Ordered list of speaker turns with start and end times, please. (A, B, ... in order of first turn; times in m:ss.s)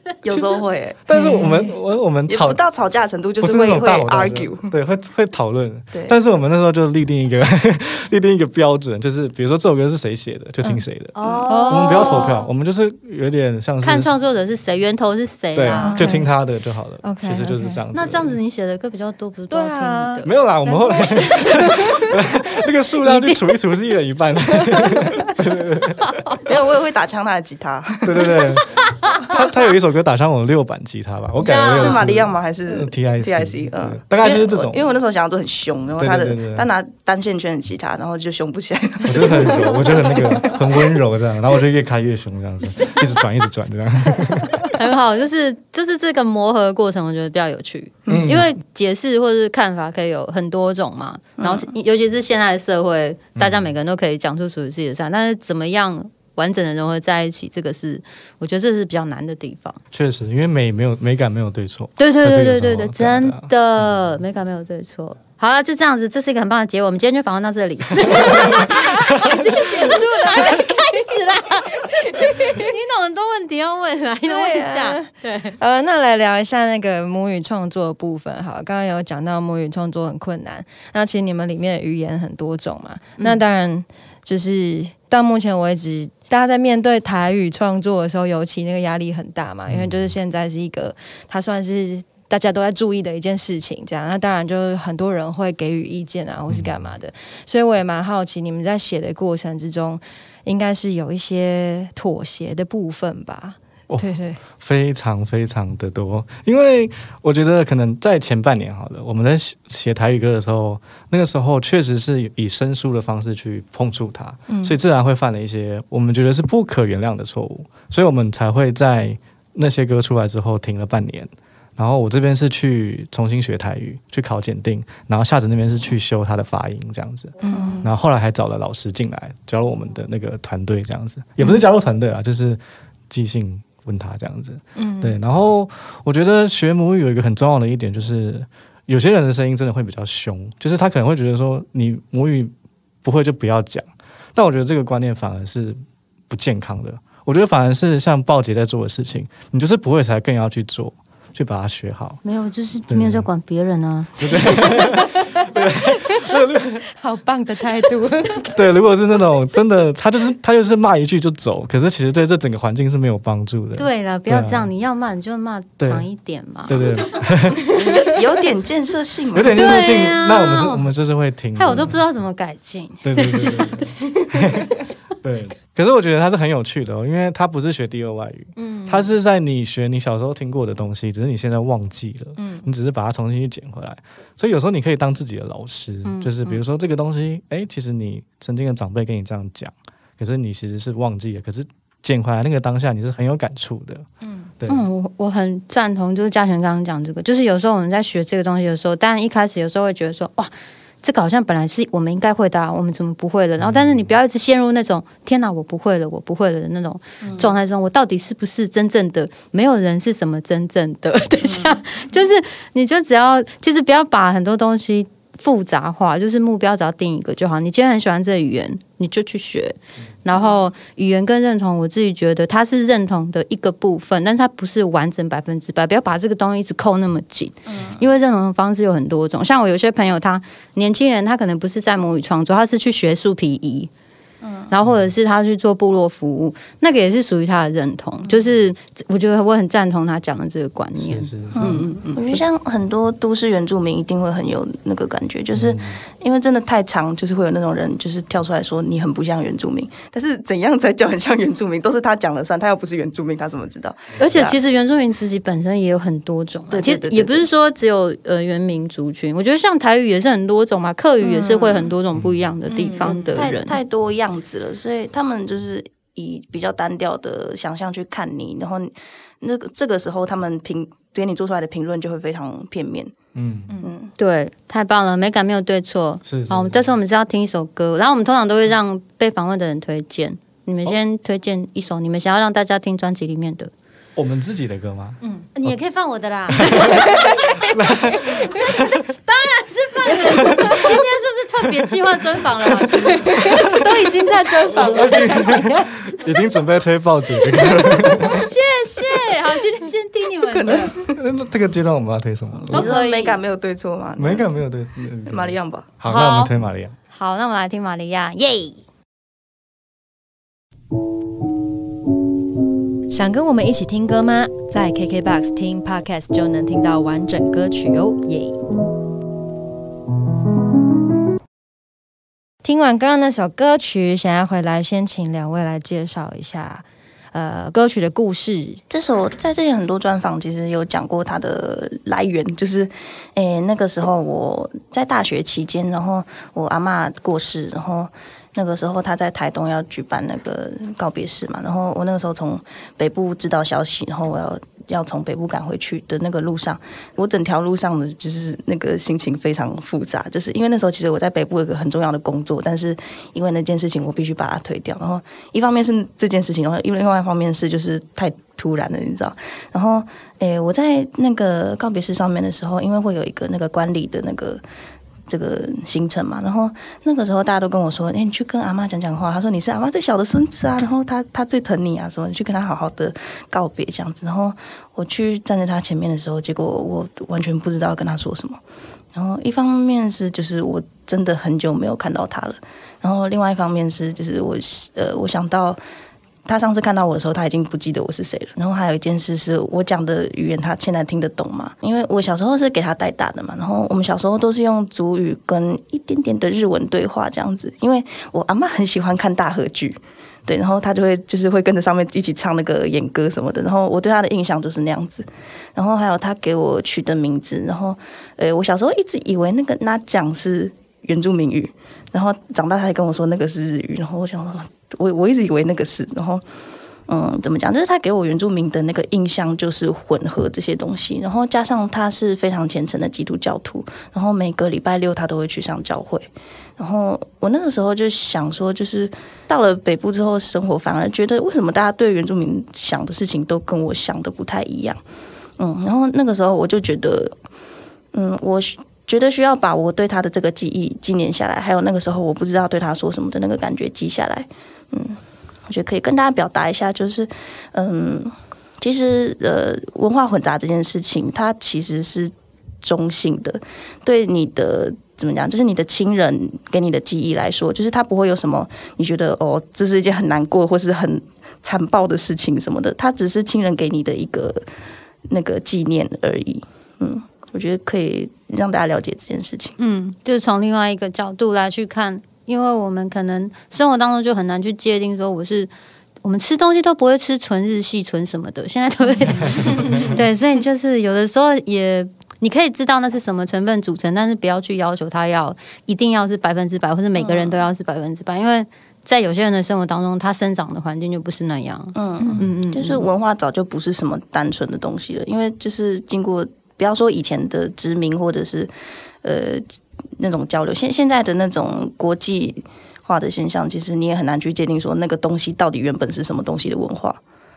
0:00.2-0:01.0 A
0:01.1-0:02.6 B
0:01.1-0:01.7 C
0:02.3-0:04.7 A
0:03.4-0:11.1 B
0:11.1-0:12.4 D
0:11.5-0:12.5 C
0:11.7-0:14.1 B
0:13.8-0:16.1 D
0:15.5-0:18.4 B
0:15.7-0:16.3 C
0:17.0-0:17.8 C
0:17.9-0:20.3 D
0:19.5-0:22.1 C
0:20.2-0:26.4 B
0:23.0-0:23.4 D
0:26.4-0:28.6 A
0:28.0-0:34.8 B
0:31.4-0:32.1 D
0:31.6-0:40.6 A
0:36.0-0:36.7 B
0:39.0-0:44.7 B
0:44.7-0:59.8 D
0:48.1-0:48.5 B
0:51.4-0:51.7 A
0:53.4-0:53.7 B
0:59.9-1:03.5 B
1:02.0-1:15.6 D
1:08.2-1:11.2 C
1:12.0-1:12.6 C
1:14.3-1:44.4 C
1:29.7-1:30.1 B
1:36.5-1:36.9 B
1:43.9-2:12.6 B
1:54.5-1:54.8 C
2:07.4-2:07.8 C
2:07.5-2:07.8 A
2:13.1-2:22.5 B
2:14.8-2:15.2 C
2:23.0-2:25.8 B
2:26.3-2:32.2 B
2:32.2-2:34.8 D
2:32.9-2:33.2 B
2:34.2-2:36.9 B
2:34.7-2:36.4 C
2:37.0-2:38.6 C
2:38.5-2:44.7 B
2:43.8-2:46.8 D
2:45.8-2:46.0 B
2:46.7-2:47.7 B
2:47.6-2:49.8 A
2:49.3-2:52.0 B
2:49.5-2:50.8 D
2:51.5-2:54.1 D
2:53.0-3:14.1 B
2:58.6-2:59.1 C
3:02.4-3:02.6 C
3:06.0-3:06.6 D
3:14.2-3:14.5 C
3:14.6-3:14.9 B
3:14.6-3:53.9 D
3:23.6-3:24.0 B
3:27.2-3:27.5 A
3:31.4-3:31.8 A
3:47.7-3:48.0 A
3:54.4-3:54.7 A
3:54.7-4:02.4 D
4:01.0-4:01.9 B
4:01.5-4:14.6 A
4:05.5-4:06.0 B
4:14.2-4:23.8 D
4:16.7-4:17.5 A
4:21.2-4:21.9 A
4:22.8-4:23.1 C
4:22.8-4:33.1 A
4:33.4-4:33.7 B
4:33.8-4:34.1 A
4:34.2-4:43.7 D
4:36.2-4:36.9 B
4:44.2-4:45.8 B
4:45.5-4:47.8 D
4:46.5-4:49.0 B
4:48.4-4:53.5 D
4:50.3-4:50.9 B
4:52.8-4:56.2 C
4:53.4-4:53.9 B
4:54.7-4:58.5 B
4:57.5-4:58.1 C
4:58.1-5:00.9 D
5:00.5-5:01.2 A
5:00.9-5:02.9 B
5:02.7-5:04.5 A
5:02.7-5:03.4 D
5:04.2-5:07.0 B
5:05.3-5:05.9 A
5:06.0-5:06.5 D
5:07.1-5:08.8 D
5:13.1-5:18.6 C
5:22.6-5:28.8 C
5:28.9-6:04.6 A
6:05.3-6:18.6 A
6:19.1-6:25.8 A
6:26.5-6:56.4 A
6:57.1-7:15.0 A
7:15.6-7:17.3 A
7:18.1-7:44.6 A
7:45.3-7:49.8 A
7:49.8-7:55.7 D
7:56.2-8:13.1 D
7:59.4-8:00.2 B
8:07.2-8:07.6 A
8:12.0-8:18.7 A
8:12.2-8:12.5 C
8:19.2-8:19.6 A
8:20.2-8:27.2 A